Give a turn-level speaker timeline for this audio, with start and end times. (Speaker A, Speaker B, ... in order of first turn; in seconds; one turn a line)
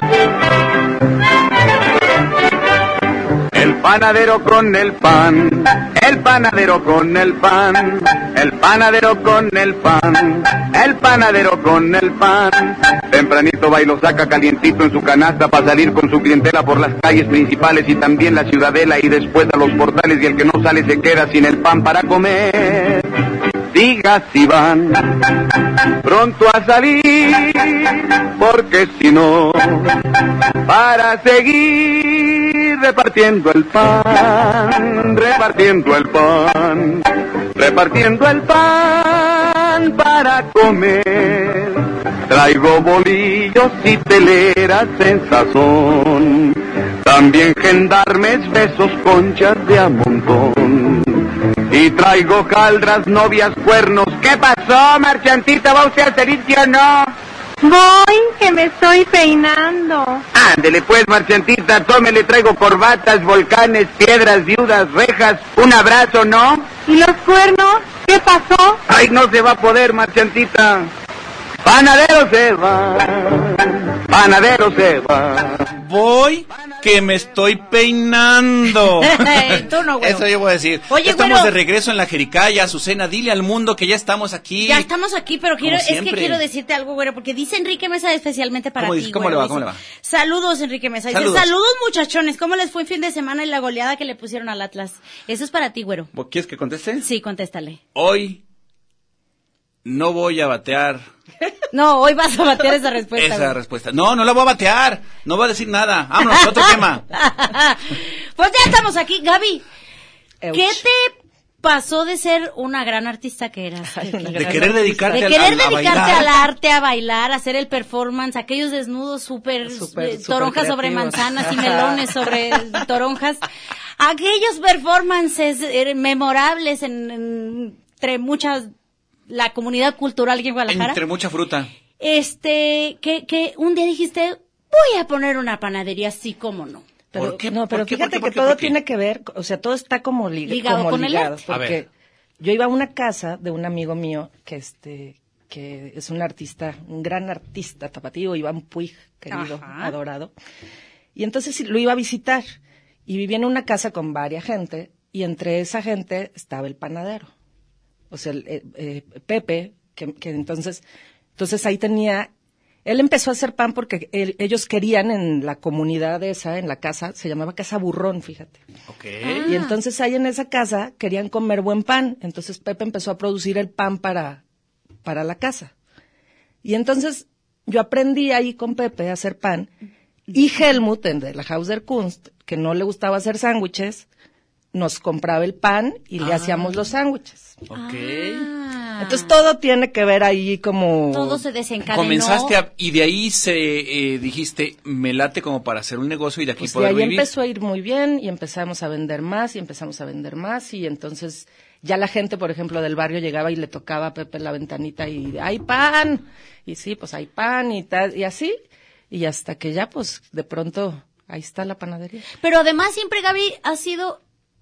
Speaker A: 3.5-23.1
Speaker A: 23.7-25.5
Speaker A: 26.0-30.0
Speaker A: 30.6-37.0
Speaker A: 37.6-57.1
Speaker B: 57.6-60.2
Speaker A: 60.4-66.7
Speaker B: 66.9-68.8
Speaker A: 68.9-70.9
Speaker A: 71.6-75.8
Speaker C: 75.8-84.9
Speaker D: 79.0-80.3
Speaker D: 80.9-81.5
Speaker D: 84.6-96.1
Speaker C: 85.6-86.4
Speaker C: 88.8-89.8
Speaker C: 91.1-91.5
Speaker C: 96.1-97.0
Speaker D: 97.0-97.8
Speaker C: 98.0-98.4
Speaker C: 99.8-101.1
Speaker D: 101.7-103.5
Speaker C: 103.2-107.1
Speaker D: 106.3-109.7
Speaker E: 110.4-110.8
Speaker D: 110.5-123.5
Speaker E: 113.9-116.2
Speaker C: 114.3-116.3
Speaker E: 119.7-122.6
Speaker D: 124.0-128.7
Speaker D: 129.3-131.0
Speaker C: 130.7-131.7
Speaker D: 132.0-136.8
Speaker E: 137.1-141.9
Speaker C: 137.2-138.8
Speaker D: 140.5-141.4
Speaker C: 141.5-141.8
Speaker E: 142.4-150.3
Speaker D: 149.3-149.9
Speaker E: 151.2-152.5
Speaker E: 153.1-157.3
Speaker E: 158.1-160.8
Speaker E: 161.4-162.3
Speaker E: 162.8-168.6
Speaker C: 168.9-169.5
Speaker D: 169.2-169.8
Speaker E: 169.4-174.4
Speaker E: 175.0-175.7
Speaker E: 176.6-179.7
Speaker E: 180.3-184.1
Speaker E: 184.7-187.6
Speaker C: 186.2-186.8
Speaker C: 187.7-188.5
Speaker D: 187.7-189.3
Speaker E: 189.0-191.4
Speaker D: 191.1-192.6
Speaker C: 191.9-197.3
Speaker E: 196.6-208.6
Speaker E: 209.1-212.3
Speaker D: 212.4-214.2